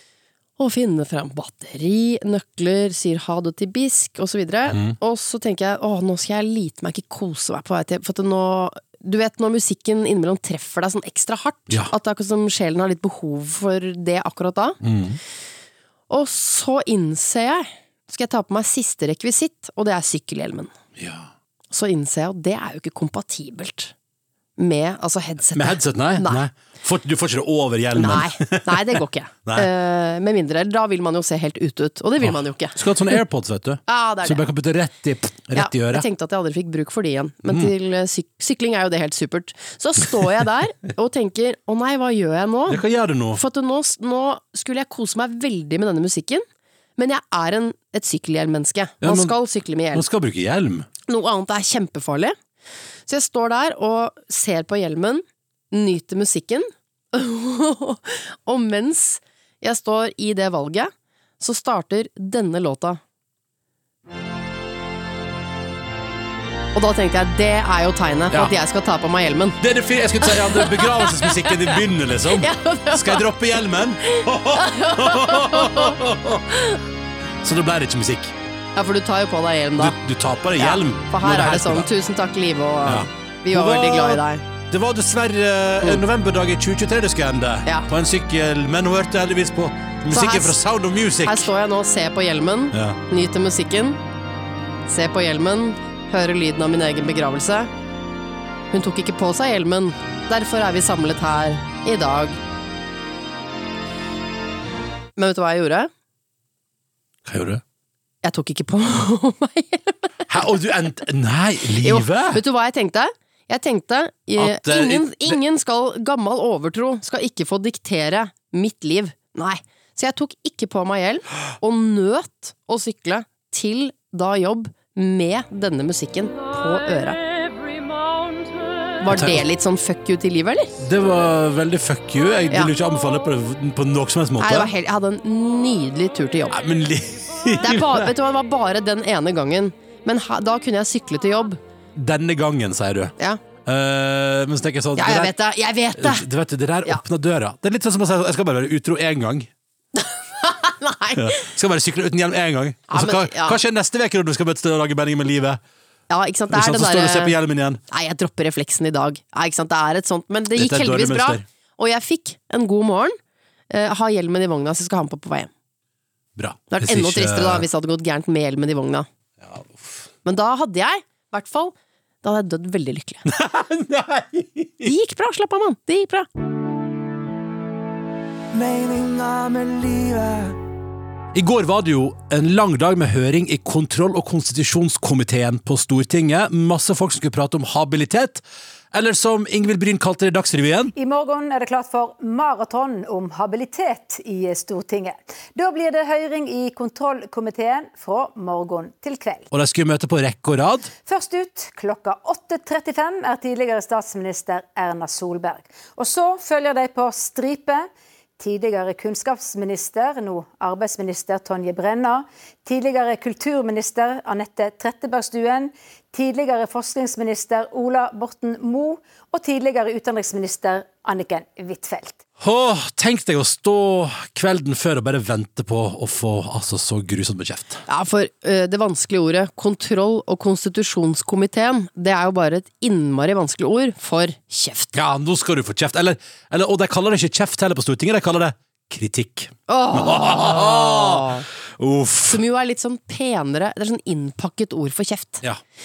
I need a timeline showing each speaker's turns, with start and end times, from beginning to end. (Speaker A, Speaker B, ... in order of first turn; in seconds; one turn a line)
Speaker A: 0.6-14.8
Speaker B: 4.7-5.0
Speaker B: 14.8-15.2
Speaker A: 16.1-20.7
Speaker B: 21.0-21.3
Speaker A: 21.7-23.9
Speaker A: 24.6-26.4
Speaker B: 25.5-29.7
Speaker A: 27.9-32.8
Speaker B: 32.2-36.1
Speaker A: 33.9-34.5
Speaker A: 35.5-42.8
Speaker B: 42.7-43.4
Speaker A: 43.3-46.5
Speaker A: 47.0-50.1
Speaker B: 49.0-49.4
Speaker B: 49.9-50.9
Speaker A: 51.1-52.4
Speaker A: 53.1-63.0
Speaker A: 66.8-69.6
Speaker B: 69.6-76.5
Speaker A: 70.2-71.8
Speaker A: 72.3-73.3
Speaker A: 74.0-76.8
Speaker B: 77.4-78.3
Speaker A: 78.8-80.0
Speaker B: 79.8-81.9
Speaker A: 80.6-84.4
Speaker B: 82.9-91.5
Speaker A: 90.1-90.6
Speaker A: 91.2-94.0
Speaker B: 92.7-93.0
Speaker A: 94.9-97.7
Speaker A: 98.7-102.4
Speaker A: 105.2-105.9
Speaker B: 107.2-107.6
Speaker A: 108.2-110.3
Speaker B: 110.3-112.4
Speaker A: 111.8-127.2
Speaker B: 114.4-115.4
Speaker A: 129.0-130.8
Speaker B: 129.1-129.4
Speaker B: 130.8-134.7
Speaker A: 134.4-136.6
Speaker B: 136.5-138.1
Speaker A: 137.6-141.6
Speaker B: 141.9-143.1
Speaker B: 143.7-145.3
Speaker A: 145.0-146.3
Speaker B: 146.0-149.5
Speaker A: 150.0-151.5
Speaker B: 151.2-155.6
Speaker A: 152.9-153.6
Speaker A: 156.1-157.3
Speaker B: 156.5-157.8
Speaker A: 157.9-163.2
Speaker B: 160.6-161.4
Speaker A: 163.7-165.5
Speaker B: 166.4-167.7
Speaker A: 166.7-169.1
Speaker B: 169.4-170.1
Speaker A: 170.2-173.3
Speaker B: 173.3-174.9
Speaker A: 174.8-176.3
Speaker C: 178.5-180.6
Speaker B: 181.3-190.9
Speaker D: 191.0-199.5
Speaker B: 199.5-200.9
Speaker D: 201.0-222.2
Speaker B: 222.4-227.8
Speaker A: 227.9-234.9
Speaker B: 234.9-242.4
Speaker A: 239.7-241.5
Speaker A: 242.2-245.4